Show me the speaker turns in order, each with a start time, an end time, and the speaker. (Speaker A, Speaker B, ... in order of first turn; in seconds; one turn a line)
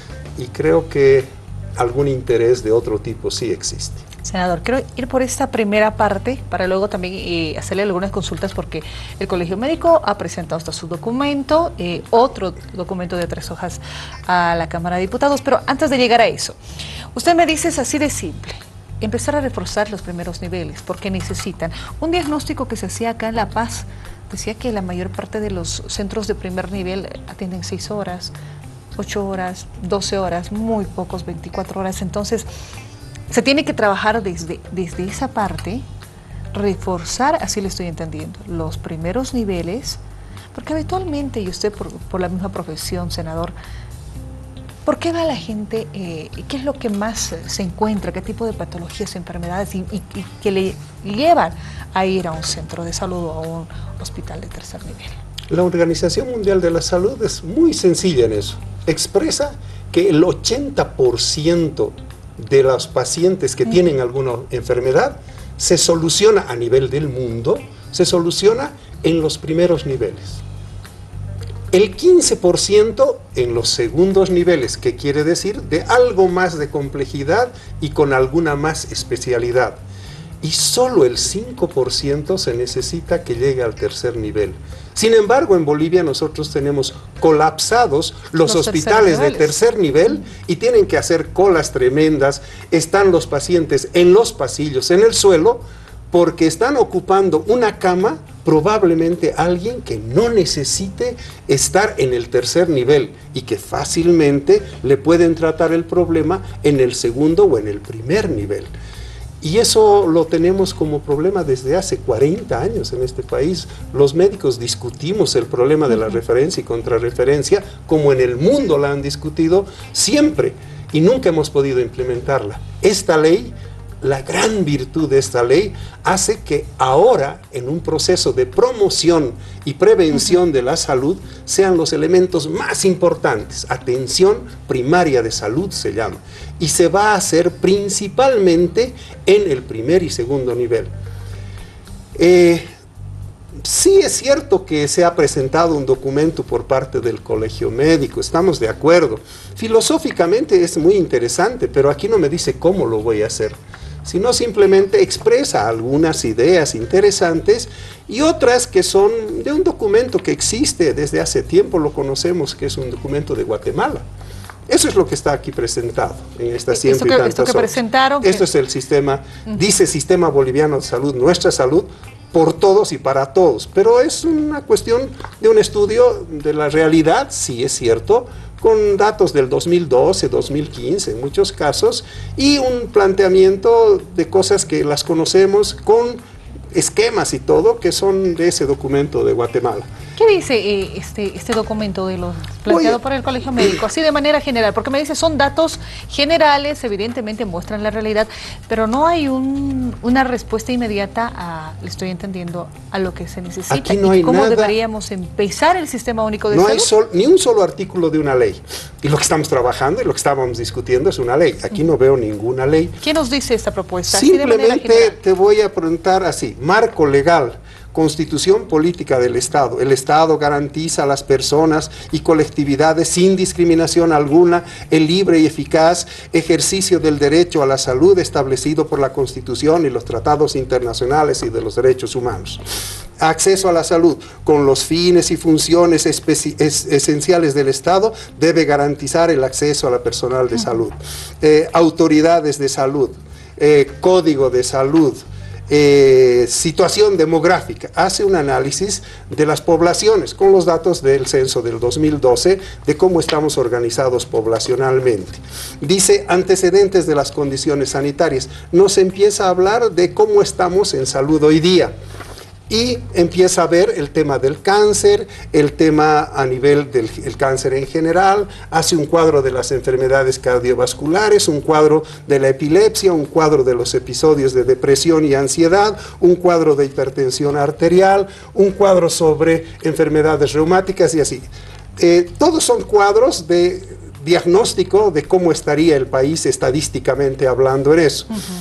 Speaker A: 0.4-4.0
Speaker B: 4.2-16.6
Speaker B: 17.1-28.3
Speaker B: 29.0-32.5
Speaker B: 33.3-35.9
Speaker B: 36.5-40.0
Speaker B: 40.5-43.5
Speaker B: 44.9-55.2
Speaker A: 55.5-70.4
Speaker A: 71.7-79.8
Speaker A: 80.4-108.7
Speaker B: 88.5-89.5
Speaker A: 109.4-140.9
Speaker A: 142.2-142.7
Speaker A: 143.6-164.1
Speaker A: 164.7-186.2
Speaker B: 166.7-168.4
Speaker A: 186.7-189.9
Speaker B: 190.2-206.9
Speaker A: 192.7-193.0
Speaker A: 203.7-204.8
Speaker A: 206.5-213.0
Speaker B: 213.0-215.2
Speaker A: 214.1-232.6
Speaker A: 233.2-261.9
Speaker A: 262.7-281.5
Speaker A: 282.0-288.4